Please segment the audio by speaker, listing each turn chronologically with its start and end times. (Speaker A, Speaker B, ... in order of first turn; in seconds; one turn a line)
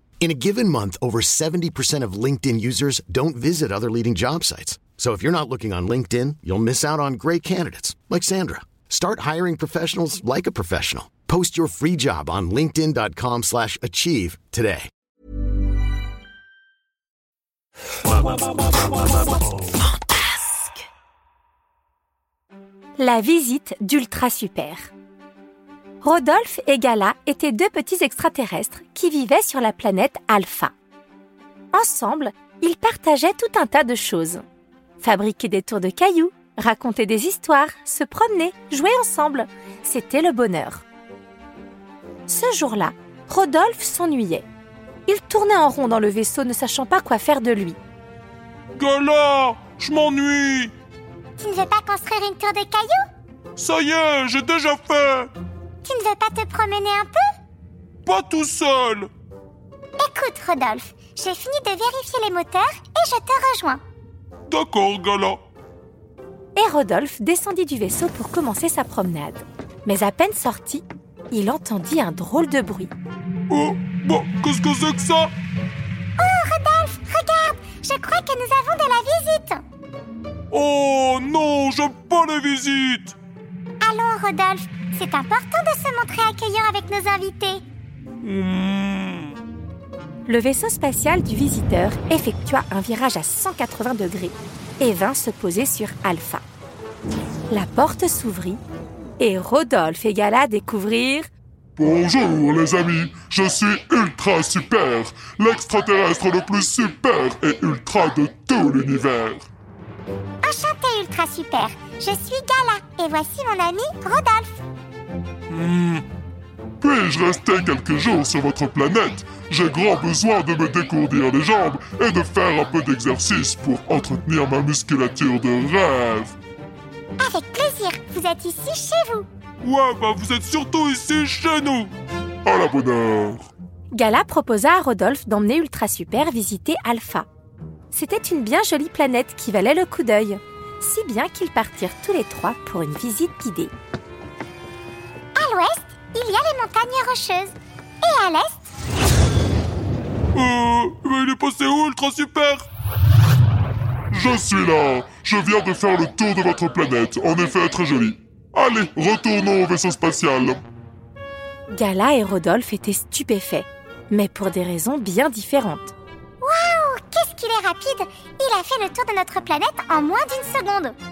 Speaker A: 0.2-14.9
Speaker B: 23.0-24.9
Speaker B: 26.0-30.7
Speaker B: 31.7-34.4
Speaker B: 35.0-40.9
Speaker B: 42.3-44.5
Speaker B: 45.1-47.8
Speaker C: 48.8-50.7
Speaker D: 51.4-53.0
Speaker C: 53.6-55.3
Speaker D: 55.8-57.2
Speaker C: 58.0-59.1
Speaker D: 60.0-63.8
Speaker C: 64.5-65.4
Speaker B: 66.5-72.9
Speaker C: 73.5-75.3
Speaker D: 76.2-79.6
Speaker C: 80.5-83.2
Speaker D: 83.8-87.7
Speaker C: 88.2-89.4
Speaker B: 90.3-96.4
Speaker B: 97.5-98.6
Speaker B: 99.2-101.3
Speaker E: 101.8-109.5
Speaker D: 110.4-114.6
Speaker C: 115.5-116.0
Speaker E: 116.8-126.3
Speaker D: 127.2-129.3
Speaker C: 129.6-131.9
Speaker E: 132.4-133.5
Speaker B: 133.9-137.3
Speaker B: 137.9-143.7
Speaker D: 145.4-148.7
Speaker C: 150.3-152.7
Speaker E: 154.1-160.6
Speaker B: 161.7-165.9
Speaker D: 166.4-171.0